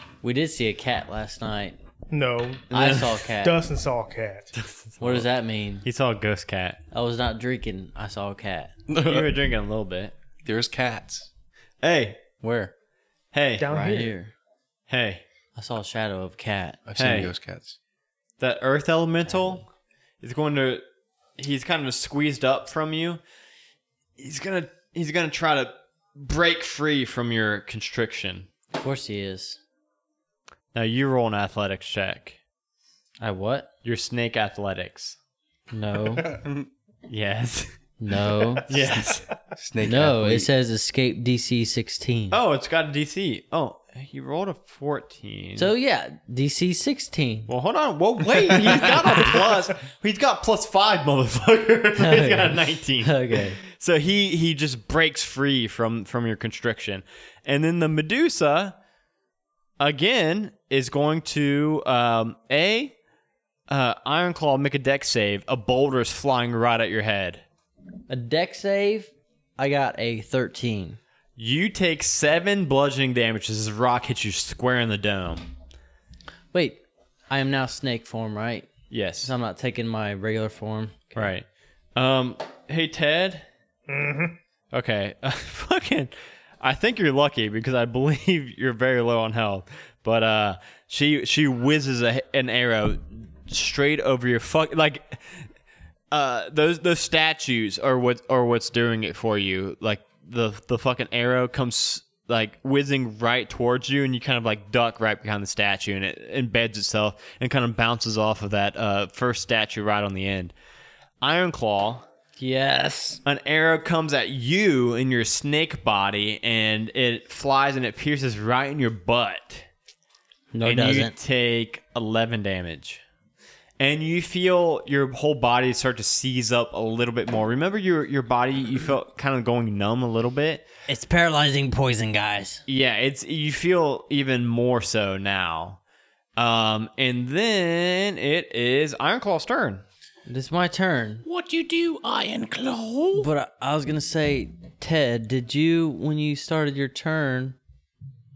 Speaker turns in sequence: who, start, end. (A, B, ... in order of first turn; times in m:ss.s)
0:00.2-0:01.8 A
0:02.1-0:02.7 B
0:02.7-0:03.2 C
0:02.7-0:03.6 A
0:03.2-0:04.5 B
0:04.6-0:05.3 C
0:05.0-0:05.8 A
0:05.8-0:06.8 C
0:06.9-0:08.7 A
0:08.9-0:09.4 D
0:09.0-0:10.1 C
0:10.4-0:11.3 D
0:11.8-0:12.2 C
0:12.4-0:12.7 D
0:13.3-0:13.7 C
0:13.6-0:14.2 B
0:13.7-0:14.3 A
0:14.9-0:15.2 C
0:15.6-0:16.8 A
0:16.9-0:17.8 D
0:17.0-0:17.3 C
0:18.4-0:19.6 C
0:19.3-0:19.6 A
0:20.2-0:20.8 C
0:21.4-0:23.2 C
0:24.2-0:28.5 C
0:28.8-0:29.6 A
0:30.7-0:32.4 C
0:33.2-0:33.7 A
0:33.8-0:35.2 C
0:35.7-0:36.3 A
0:36.1-0:36.7 D
0:37.1-0:37.7 C
0:38.0-0:38.8 A
0:38.4-0:39.3 C
0:39.6-0:40.5 D
0:39.8-0:42.4 A
0:42.3-0:45.7 C
0:45.6-0:47.5 A
0:47.5-0:58.8 C
0:48.6-0:49.5 A
0:52.0-0:53.6 A
0:59.8-1:03.0 C
1:03.7-1:07.4 C
1:08.1-1:11.0 A
1:11.4-1:15.5 C
1:16.5-1:18.7 A
1:18.9-1:19.3 C
1:19.2-1:21.2 A
1:21.2-1:23.5 C
1:23.9-1:24.4 B
1:24.7-1:35.5 C
1:36.1-1:50.5 C
1:51.2-1:52.1 C
1:52.4-1:53.2 A
1:53.2-1:59.7 C
2:00.5-2:01.2 A
2:00.6-2:03.0 C
2:03.8-2:10.7 C
2:10.9-2:12.6 A
2:12.7-2:15.8 C
2:16.4-2:19.8 C
2:20.3-2:21.2 A
2:21.2-2:23.3 E
2:23.2-2:27.6 A